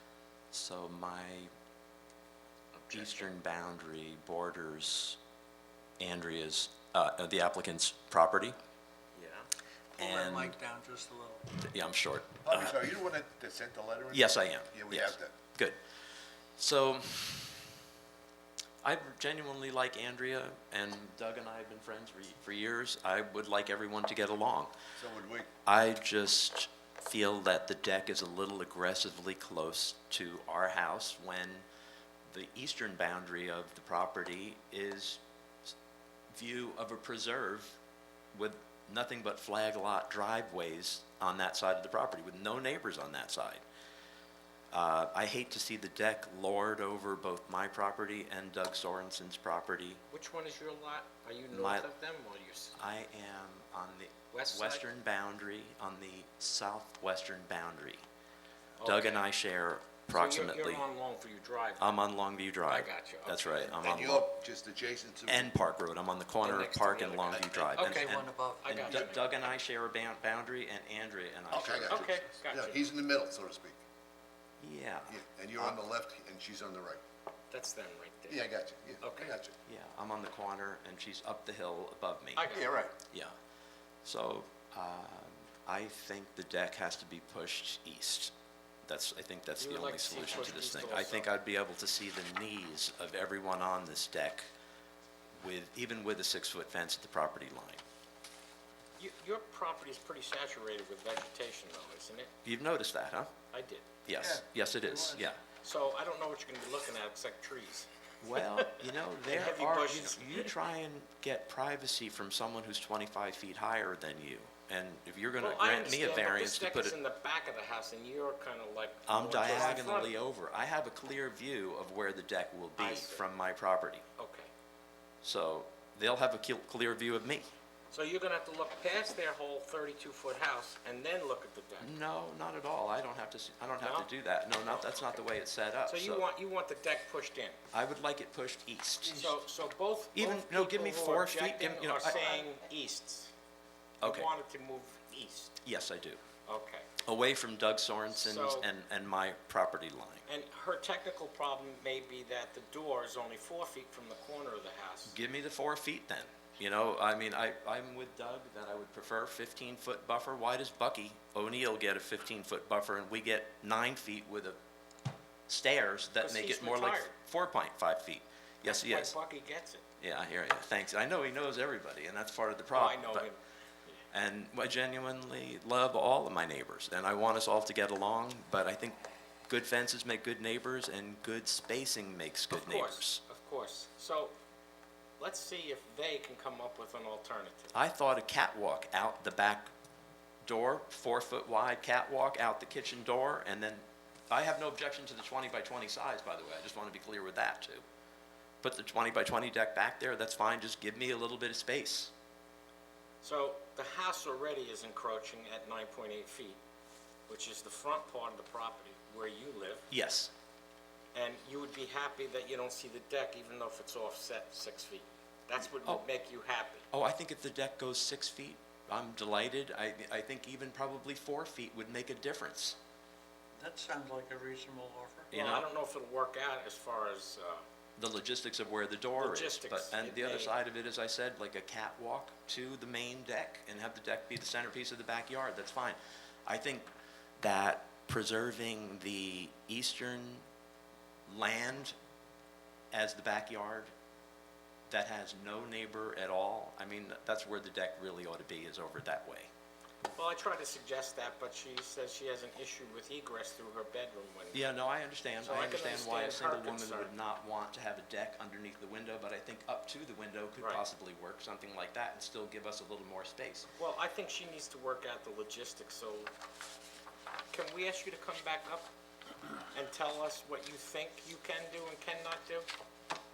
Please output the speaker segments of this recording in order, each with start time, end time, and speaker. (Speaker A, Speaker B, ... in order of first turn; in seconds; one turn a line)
Speaker A: 0.5-1.5
Speaker B: 2.9-3.3
Speaker A: 2.9-5.2
Speaker A: 6.0-8.6
Speaker B: 9.1-9.5
Speaker C: 9.9-11.5
Speaker A: 10.0-10.6
Speaker A: 11.6-12.8
Speaker D: 12.4-15.3
Speaker A: 14.1-15.8
Speaker A: 16.6-17.7
Speaker A: 18.8-24.7
Speaker D: 24.9-25.5
Speaker A: 25.6-31.6
Speaker A: 32.3-35.2
Speaker A: 36.3-37.8
Speaker A: 38.3-43.6
Speaker A: 44.7-50.0
Speaker B: 50.1-52.8
Speaker A: 51.5-51.9
Speaker A: 52.8-58.0
Speaker B: 54.3-54.8
Speaker B: 58.8-59.3
Speaker A: 58.8-60.8
Speaker B: 60.1-62.0
Speaker A: 61.8-64.3
Speaker B: 62.7-63.7
Speaker D: 63.7-65.5
Speaker A: 65.3-72.3
Speaker B: 66.4-69.3
Speaker C: 67.8-69.0
Speaker D: 71.5-73.8
Speaker B: 71.9-72.9
Speaker A: 74.6-75.8
Speaker D: 75.1-77.0
Speaker B: 77.5-78.4
Speaker D: 78.3-79.6
Speaker B: 79.0-79.3
Speaker A: 79.7-82.5
Speaker B: 82.4-82.8
Speaker D: 82.5-83.0
Speaker A: 83.1-83.3
Speaker A: 84.0-88.3
Speaker A: 88.9-94.5
Speaker B: 89.6-91.3
Speaker A: 95.4-97.8
Speaker B: 99.0-102.3
Speaker A: 102.5-103.3
Speaker B: 103.5-104.0
Speaker A: 104.0-105.4
Speaker C: 104.2-105.2
Speaker B: 105.6-110.5
Speaker A: 108.2-117.0
Speaker B: 115.4-120.1
Speaker A: 119.1-124.0
Speaker B: 122.8-123.2
Speaker B: 124.2-124.5
Speaker A: 125.2-127.5
Speaker B: 127.9-131.9
Speaker A: 131.8-136.2
Speaker B: 133.8-134.1
Speaker B: 134.6-134.9
Speaker B: 135.9-137.6
Speaker A: 137.7-139.4
Speaker B: 139.1-143.3
Speaker A: 140.1-142.4
Speaker A: 144.0-144.3
Speaker B: 144.0-145.6
Speaker A: 145.6-146.2
Speaker B: 146.5-146.9
Speaker A: 147.0-150.2
Speaker B: 148.1-148.7
Speaker B: 150.2-155.2
Speaker A: 155.1-164.6
Speaker A: 165.5-169.2
Speaker B: 166.2-167.1
Speaker B: 168.6-169.9
Speaker A: 170.0-173.3
Speaker B: 172.7-174.0
Speaker A: 174.1-179.0
Speaker A: 179.5-183.2
Speaker B: 182.5-184.3
Speaker B: 185.2-187.8
Speaker A: 187.7-189.7
Speaker A: 190.4-197.8
Speaker A: 198.6-202.1
Speaker B: 203.2-206.6
Speaker B: 207.3-209.9
Speaker A: 209.9-210.3
Speaker B: 211.1-216.9
Speaker A: 215.6-216.0
Speaker A: 216.9-222.8
Speaker C: 223.6-225.3
Speaker A: 225.3-225.7
Speaker B: 225.3-227.6
Speaker A: 228.0-240.4
Speaker B: 229.2-230.6
Speaker A: 241.3-241.9
Speaker A: 242.9-243.9
Speaker A: 244.9-249.5
Speaker B: 250.1-254.6
Speaker A: 254.5-263.7
Speaker B: 255.4-257.1
Speaker B: 263.8-266.3
Speaker B: 267.5-268.9
Speaker B: 269.7-272.7